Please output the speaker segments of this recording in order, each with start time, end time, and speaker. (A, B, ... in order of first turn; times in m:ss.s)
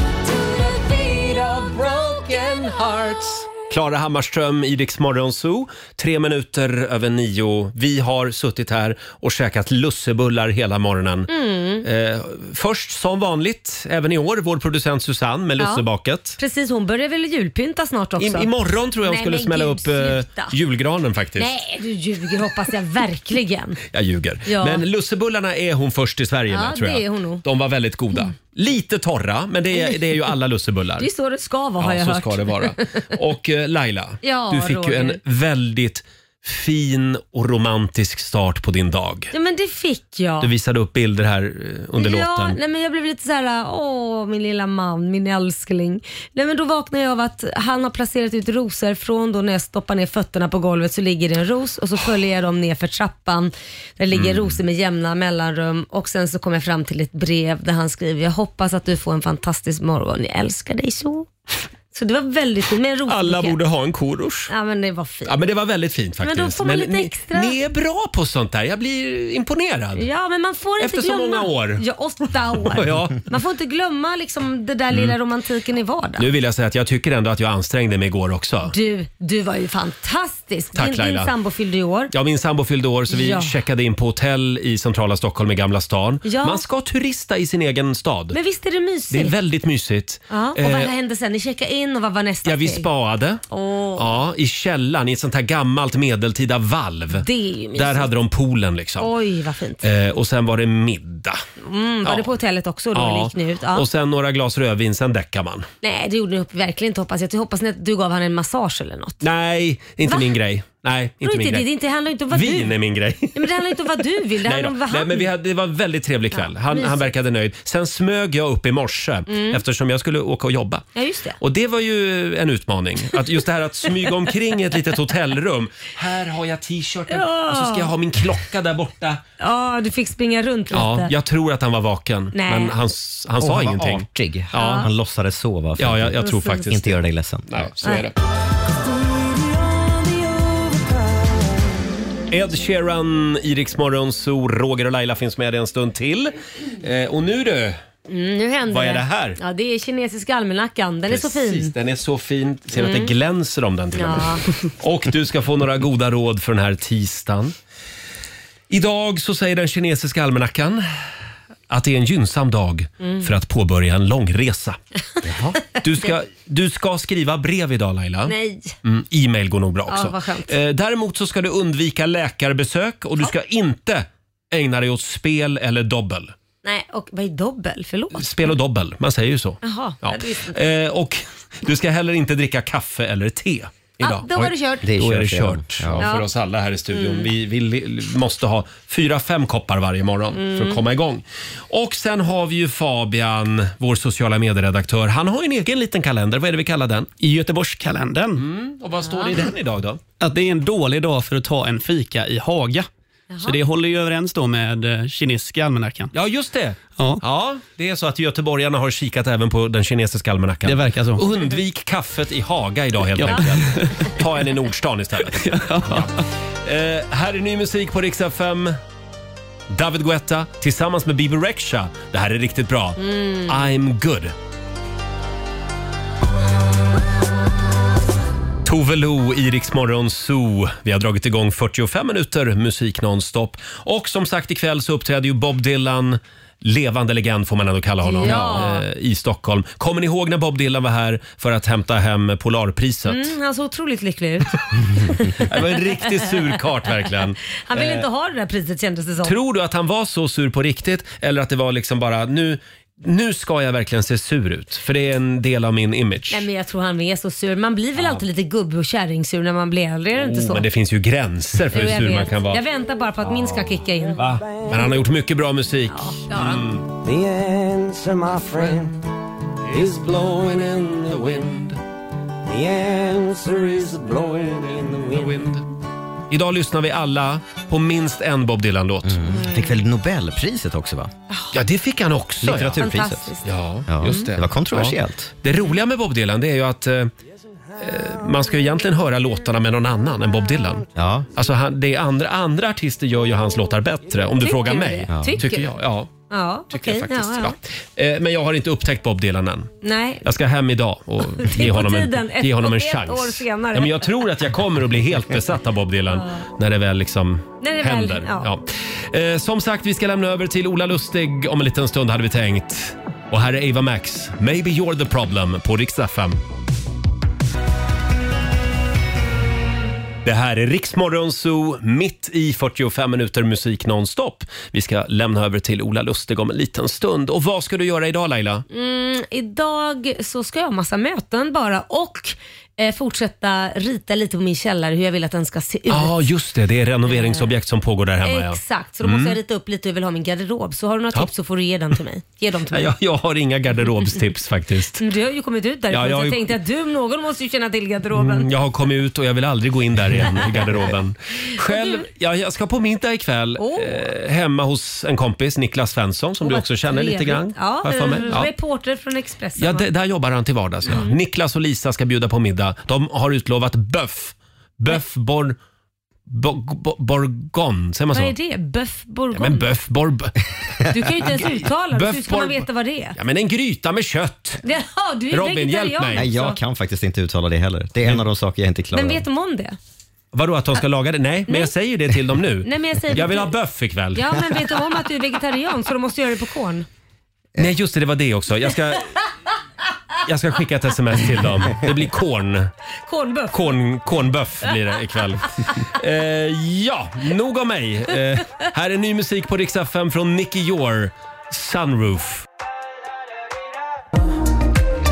0:00.8-0:11.3 A
0:11.3-0:11.8 B
0:11.8-0:16.4 A
0:15.6-0:15.8 B
0:16.4-0:18.5 B
0:18.2-0:21.6 A
0:19.0-0:20.5 B
0:21.4-0:23.8 B
0:23.9-0:31.1 A
0:24.5-0:24.8 B
0:26.5-0:27.4 B
0:31.0-0:32.9 B
0:31.8-0:39.3 A
0:34.2-0:35.2 B
0:39.3-0:40.5 B
0:40.4-0:42.6 A
0:42.0-1:01.3 B
0:54.1-0:54.6 A
1:01.9-1:03.6 B
1:03.1-1:04.5 A
1:04.5-1:05.4 B
1:05.2-1:10.0 A
1:06.2-1:07.5 B
1:10.0-1:16.3 B
1:10.8-1:11.8 A
1:12.6-1:13.2 A
1:14.9-1:15.2 A
1:16.2-1:18.7 A
1:18.6-1:22.1 B
1:20.7-1:21.3 A
1:22.1-1:28.4 A
1:23.1-1:23.5 B
1:26.2-1:26.6 B
1:28.3-1:29.3 B
1:29.1-1:30.9 A
1:30.3-1:32.8 B
1:32.4-1:33.4 A
1:33.5-1:34.1 B
1:34.0-1:39.1 A
1:37.2-1:38.1 B
1:39.0-1:39.9 B
1:39.8-1:41.4 A
1:41.6-1:43.8 B
1:42.0-1:42.4 A
1:42.9-1:45.7 A
1:45.8-1:49.2 B
1:49.2-1:51.7 A
1:51.2-1:52.7 B
1:52.3-1:53.8 A
1:53.3-1:55.3 B
1:54.4-2:00.8 A
1:56.3-1:57.1 B
1:59.3-1:59.6 B
2:00.9-2:01.4 B
2:01.4-2:09.2 A
2:07.1-2:07.9 B
2:09.4-2:11.1 B
2:10.7-2:14.8 A
2:12.3-2:12.7 B
2:13.4-2:17.7 C
2:14.6-2:14.9 B
2:15.8-2:16.9 A
2:16.2-2:16.8 B
2:17.5-2:18.1 A
2:22.3-2:27.8 A
2:28.1-2:31.7 B
2:28.7-2:29.4 A
2:31.1-2:37.5 A
2:32.8-2:33.1 B
2:34.0-2:34.5 B
2:38.7-2:40.8 A
2:41.7-2:56.3 A
2:43.0-2:43.3 B
2:48.3-2:48.7 B
2:49.9-2:50.5 B
2:56.6-2:58.3 B
2:58.1-3:17.1 A
2:59.6-3:00.6 B
3:04.0-3:04.9 B
3:04.8-3:06.1 C
3:06.0-3:06.2 B
3:06.9-3:07.3 B
3:10.4-3:10.8 B
3:17.2-3:18.4 D
3:18.4-3:20.0 A
3:19.0-3:19.3 B
3:20.2-3:22.9 D
3:23.3-3:23.6 B
3:23.4-3:26.1 D
3:26.1-3:36.1 A
3:27.0-3:27.2 D
3:30.6-3:31.2 D
3:33.2-3:34.1 D
3:35.3-3:36.2 D
3:36.6-3:38.8 A
3:39.7-3:44.3 A
3:43.0-3:43.6 B
3:48.6-4:03.3 A
3:58.0-3:58.8 B
4:03.1-4:05.5 B
4:05.4-4:08.0 A
4:07.6-4:09.4 B
4:09.2-4:16.4 A
4:16.3-4:20.6 B
4:18.0-4:18.2 A
4:20.2-4:22.6 A
4:21.7-4:24.2 B
4:23.2-4:26.8 A
4:24.2-4:24.8 E
4:25.9-4:26.6 B
4:26.9-4:29.0 E
4:29.7-4:31.5 E
4:31.1-4:31.8 A
4:32.5-4:35.6 E
4:35.2-4:35.6 A
4:36.3-4:39.3 A
4:39.0-4:41.1 C
4:41.5-4:42.8 A
4:42.4-4:43.3 C
4:42.6-4:43.5 B
4:43.4-4:47.1 A
4:43.9-4:45.3 C
4:47.8-4:56.1 A
4:50.9-4:51.3 C
4:54.4-4:55.7 B
4:55.1-4:55.4 C
4:56.3-4:57.6 B
4:56.7-4:59.7 A
4:59.8-5:00.3 B
5:00.2-5:16.4 A
5:01.4-5:04.1 B
5:06.1-5:06.4 B
5:07.6-5:08.5 B
5:20.2-5:28.6 A
5:28.7-5:36.2 B
5:35.9-5:39.4 A
5:37.0-5:37.5 B
5:38.2-5:42.9 B
5:42.7-5:45.0 A
5:45.0-5:48.5 B
5:45.9-5:46.6 A
5:48.1-5:58.5 A
5:51.6-5:52.0 B
5:53.6-5:54.0 B
5:56.4-5:59.8 B
5:59.6-6:05.6 A
6:00.9-6:01.2 B
6:06.3-6:08.3 A
6:08.1-6:09.7 B
6:09.3-6:10.4 A
6:10.9-6:13.2 B
6:11.2-6:12.6 A
6:13.2-6:14.6 A
6:14.6-6:16.6 B
6:15.3-6:16.3 A
6:16.1-6:19.2 C
6:18.9-6:19.8 B
6:20.3-6:24.5 A
6:22.6-6:23.5 B
6:24.1-6:26.8 B
6:27.6-6:29.2 A
6:30.2-6:32.7 A
6:33.1-6:33.7 B
6:33.5-6:42.4 A